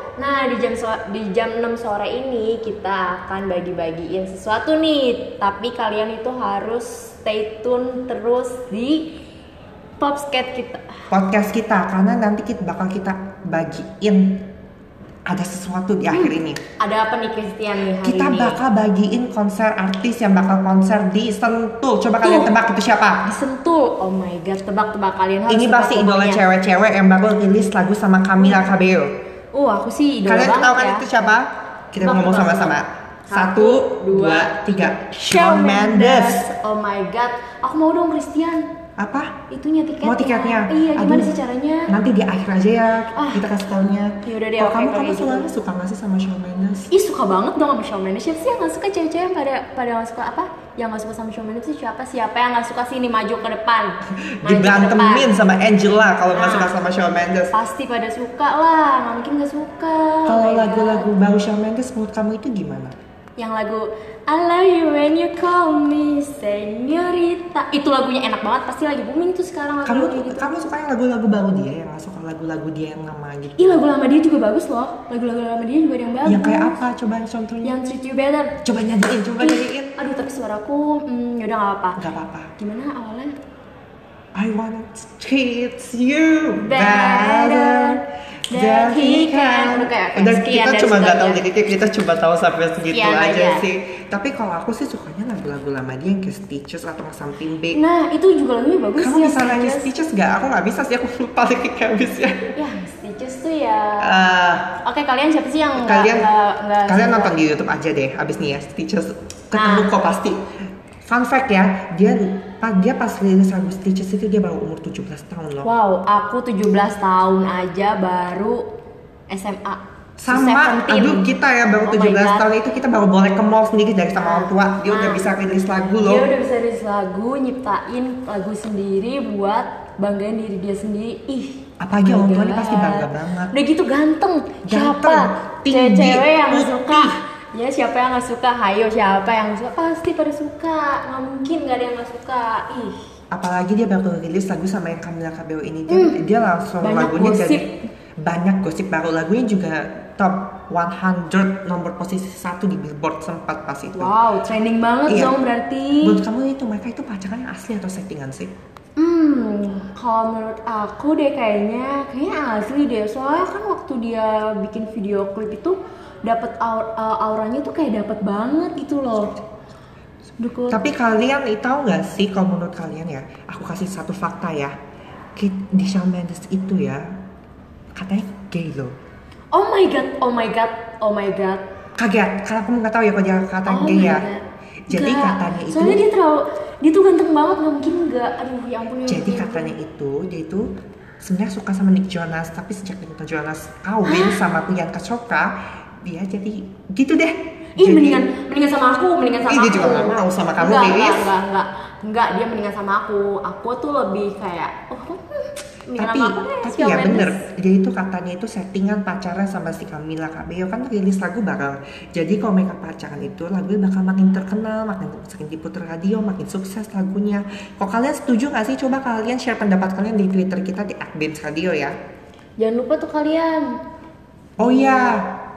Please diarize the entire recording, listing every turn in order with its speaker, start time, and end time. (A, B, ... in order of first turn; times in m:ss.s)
0:00.2-0:09.1 A
0:10.0-0:11.0 A
0:11.1-0:14.4 B
0:15.3-0:16.6 B
0:16.1-0:18.6 A
0:18.0-0:23.3 B
0:22.2-0:22.5 A
0:23.2-0:26.4 A
0:25.5-0:29.1 B
0:29.5-0:31.0 A
0:30.2-0:36.5 B
0:32.0-0:38.7 A
0:39.0-0:39.4 B
0:39.5-0:41.9 A
0:40.0-0:41.3 B
0:41.9-0:46.9 B
0:43.2-0:43.4 A
0:44.2-0:45.5 A
0:46.9-0:55.3 A
0:54.4-0:57.6 B
0:56.3-0:56.7 A
0:57.5-1:01.1 A
1:00.3-1:02.9 B
1:03.4-1:10.5 A
1:09.8-1:13.9 B
1:13.6-1:16.8 A
1:16.2-1:17.8 B
1:17.6-1:18.5 A
1:18.6-1:20.0 B
1:19.4-1:22.0 A
1:22.0-1:22.5 B
1:22.6-1:23.3 A
1:24.3-1:37.8 B
1:26.6-1:31.4 A
1:32.9-1:33.6 A
1:37.7-1:39.9 A
1:39.0-1:42.5 B
1:42.6-1:44.3 A
1:44.0-1:44.7 B
1:44.8-1:47.4 A
1:45.8-1:46.3 B
1:46.9-1:50.4 B
1:49.5-1:49.9 A
1:51.0-1:55.7 B
1:55.6-1:58.7 A
1:59.3-2:01.3 A
2:00.2-2:06.3 B
2:01.8-2:02.4 A
2:04.2-2:05.2 A
2:06.0-2:23.0 A
2:11.8-2:13.5 B
2:14.6-2:17.2 B
2:23.3-2:27.7 B
2:25.9-2:26.2 A
2:26.8-2:27.7 A
2:28.2-2:34.1 B
2:34.0-2:36.2 A
2:35.1-2:35.4 B
2:36.0-2:38.5 B
2:39.0-2:49.4 A
2:50.4-2:50.8 A
2:50.7-2:54.7 B
2:55.4-2:57.0 B
2:58.0-2:59.0 B
2:59.5-3:01.6 A
3:02.0-3:04.3 B
3:03.6-3:09.7 A
3:04.9-3:06.0 B
3:09.1-3:10.7 B
3:11.2-3:18.3 B
3:14.0-3:14.4 A
3:17.8-3:27.4 A
3:19.4-3:21.2 B
3:26.0-3:41.9 B
3:42.6-3:43.8 A
3:44.6-3:45.3 B
3:44.6-3:45.2 A